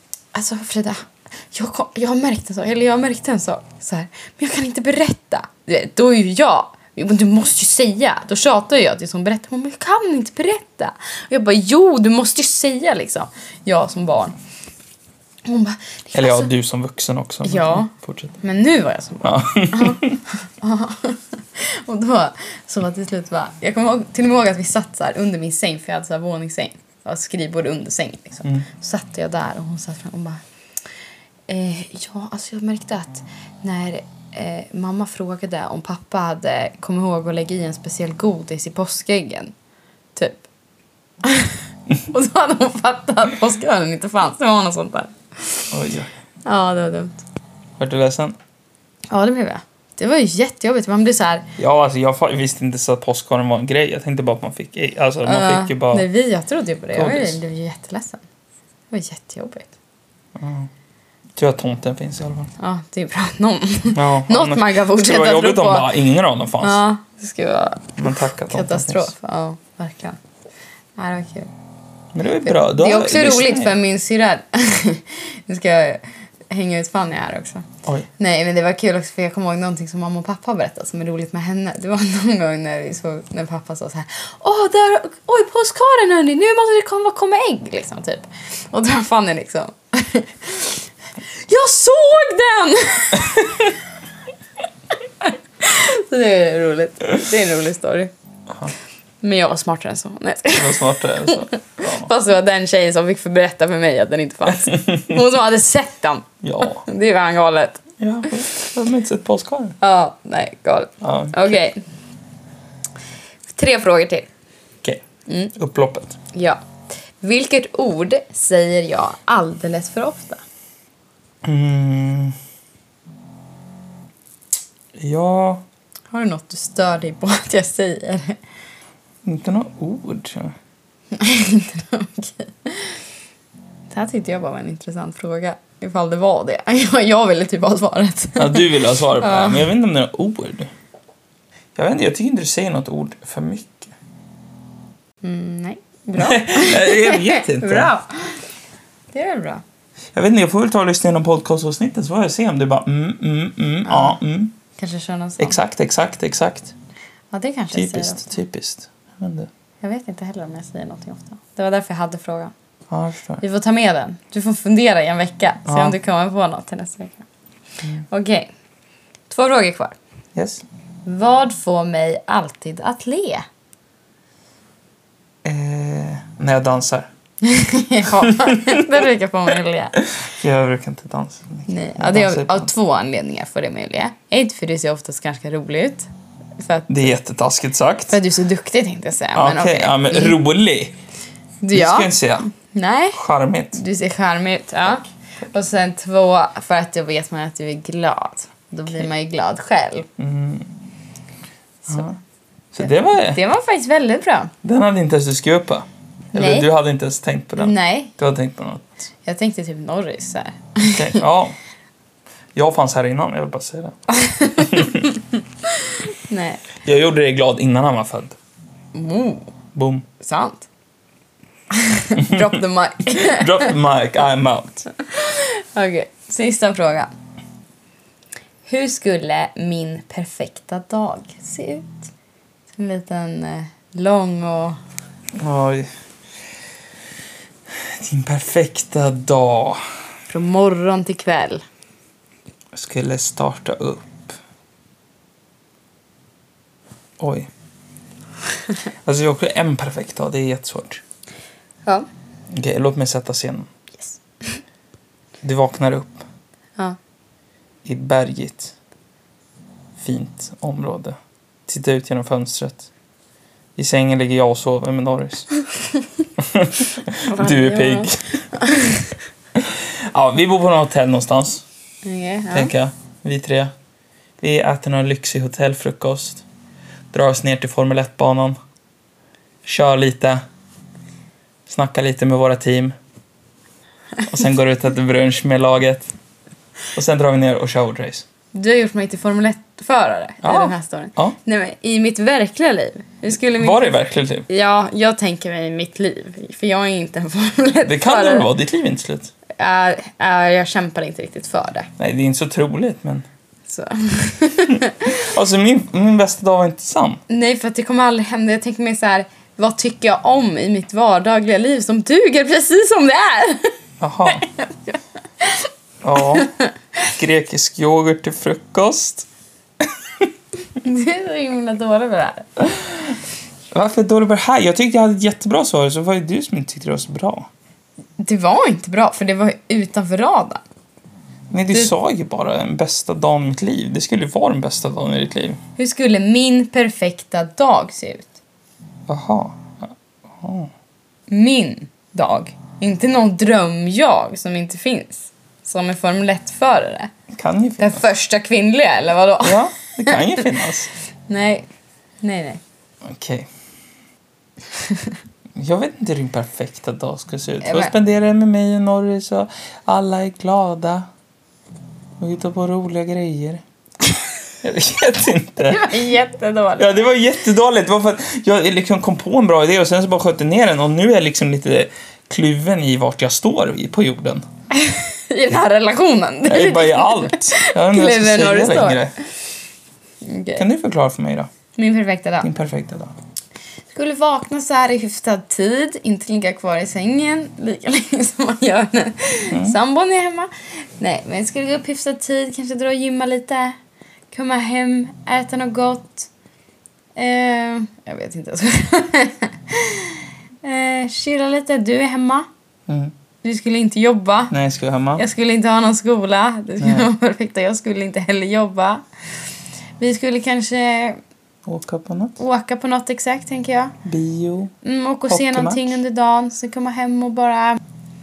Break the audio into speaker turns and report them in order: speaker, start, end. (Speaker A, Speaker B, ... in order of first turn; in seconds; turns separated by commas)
Speaker A: 0.3-14.3, Speaker A: 15.4-16.5, Speaker B: 16.1-18.4, Speaker A: 17.4-30.4, Speaker B: 19.2-20.2, Speaker A: 31.5-39.5, Speaker A: 40.1-40.4, Speaker A: 41.2-45.7, Speaker B: 45.7-46.1, Speaker A: 46.4-47.2, Speaker B: 47.8-48.4, Speaker A: 49.1-51.5, Speaker B: 51.6-56.0, Speaker A: 55.2-58.2, Speaker B: 56.9-57.4, Speaker A: 58.9-59.7, Speaker B: 60.4-60.7, Speaker B: 61.4-62.5, Speaker A: 62.6-65.9, Speaker B: 63.9-66.8, Speaker A: 66.6-70.2, Speaker B: 68.0-69.1, Speaker A: 71.0-71.5, Speaker B: 72.1-73.7, Speaker A: 72.4-77.7, Speaker A: 78.2-93.7, Speaker A: 95.2-98.1, Speaker A: 99.2-108.3, Speaker B: 100.5-102.1, Speaker B: 104.8-105.0, Speaker B: 106.4-106.8, Speaker B: 108.0-109.8, Speaker A: 109.8-111.8, Speaker B: 111.0-111.6, Speaker A: 113.5-114.3, Speaker B: 114.8-116.2, Speaker A: 115.3-115.5, Speaker A: 116.3-116.6, Speaker A: 117.2-120.4, Speaker B: 121.4-122.3, Speaker B: 125.0-125.6, Speaker A: 126.1-128.4, Speaker B: 129.2-130.6, Speaker A: 131.1-133.0, Speaker A: 133.9-139.7, Speaker B: 138.4-140.7, Speaker B: 141.7-143.9, Speaker A: 145.2-148.4, Speaker B: 146.2-147.9, Speaker A: 149.1-149.6, Speaker B: 150.1-154.5, Speaker A: 153.8-154.2, Speaker A: 154.8-155.6, Speaker B: 155.4-156.7, Speaker A: 157.3-158.4, Speaker B: 157.7-159.5, Speaker A: 159.8-162.5, Speaker B: 162.9-163.4, Speaker A: 163.4-167.2, Speaker B: 165.7-165.9, Speaker A: 168.1-168.5, Speaker A: 169.3-169.9, Speaker B: 170.3-170.6, Speaker A: 171.1-173.4, Speaker B: 175.4-177.1, Speaker A: 177.4-180.0, Speaker B: 178.2-178.8, Speaker B: 180.1-182.7, Speaker A: 181.7-186.1, Speaker A: 186.6-187.1, Speaker B: 186.9-188.2, Speaker A: 188.1-190.4, Speaker B: 189.3-190.9, Speaker A: 191.6-193.2, Speaker B: 191.7-192.5, Speaker B: 193.1-193.8, Speaker A: 193.7-200.1, Speaker B: 200.2-200.7, Speaker B: 201.9-202.2, Speaker B: 202.7-203.4, Speaker A: 202.8-204.5, Speaker B: 204.6-208.9, Speaker A: 206.3-206.7, Speaker A: 207.6-208.1, Speaker A: 209.2-211.2, Speaker B: 210.8-211.6, Speaker B: 212.5-214.0, Speaker A: 214.1-215.1, Speaker B: 214.5-215.1, Speaker A: 215.7-216.6, Speaker B: 216.8-218.4, Speaker A: 218.9-219.5, Speaker B: 219.7-220.1, Speaker A: 220.2-220.7, Speaker A: 221.7-223.7, Speaker B: 222.2-222.4, Speaker B: 223.1-224.8, Speaker A: 224.9-227.1, Speaker A: 228.7-232.1, Speaker A: 232.8-234.8, Speaker B: 235.3-235.9, Speaker B: 237.7-239.8, Speaker A: 240.3-241.6, Speaker B: 242.7-244.3, Speaker B: 247.2-247.5, Speaker B: 249.0-251.0, Speaker B: 252.5-253.7, Speaker A: 254.0-254.6, Speaker B: 255.4-256.2, Speaker B: 257.8-258.7, Speaker B: 260.0-261.1, Speaker B: 261.7-262.9, Speaker B: 263.8-265.5, Speaker B: 266.4-268.4, Speaker A: 267.2-269.1, Speaker B: 269.5-271.6, Speaker A: 272.0-272.7, Speaker B: 272.5-273.7, Speaker B: 274.4-276.4, Speaker B: 277.1-278.6, Speaker B: 279.6-280.4, Speaker B: 281.7-282.9, Speaker B: 284.2-286.1, Speaker B: 286.9-288.2, Speaker A: 288.5-298.5, Speaker B: 290.4-291.3, Speaker B: 293.6-294.4, Speaker B: 297.9-299.3, Speaker A: 299.6-301.9, Speaker B: 302.0-303.2, Speaker A: 303.7-305.2, Speaker B: 305.0-307.2, Speaker A: 307.3-313.7, Speaker B: 314.0-314.4, Speaker A: 314.3-316.7, Speaker B: 316.0-319.3, Speaker B: 319.8-320.3, Speaker A: 320.8-322.5, Speaker B: 322.8-323.1, Speaker B: 323.7-327.5, Speaker A: 328.2-330.6, Speaker B: 331.5-335.6, Speaker A: 335.8-338.4, Speaker B: 339.1-340.7, Speaker A: 341.3-347.1, Speaker B: 347.3-348.0, Speaker A: 347.8-350.6, Speaker B: 349.4-350.9, Speaker A: 351.3-351.7, Speaker A: 352.2-352.6, Speaker B: 353.0-353.5, Speaker A: 354.8-355.1, Speaker B: 355.5-361.1, Speaker A: 357.6-357.9, Speaker B: 362.2-363.6, Speaker B: 364.6-365.9, Speaker A: 365.7-367.0, Speaker B: 366.8-374.4, Speaker A: 374.7-379.1, Speaker B: 376.5-379.1, Speaker A: 380.2-380.6, Speaker B: 380.6-381.5, Speaker A: 381.8-382.5, Speaker B: 382.4-383.1, Speaker A: 383.9-393.8, Speaker B: 389.5-389.8, Speaker A: 394.3-396.3, Speaker A: 397.1-402.5, Speaker B: 402.9-403.1, Speaker A: 403.4-404.5, Speaker B: 404.5-405.2, Speaker A: 405.1-409.0, Speaker B: 406.8-407.1, Speaker A: 410.0-411.2, Speaker B: 411.6-412.4, Speaker A: 412.4-413.9, Speaker B: 414.0-414.7, Speaker A: 414.8-417.8, Speaker B: 415.3-415.9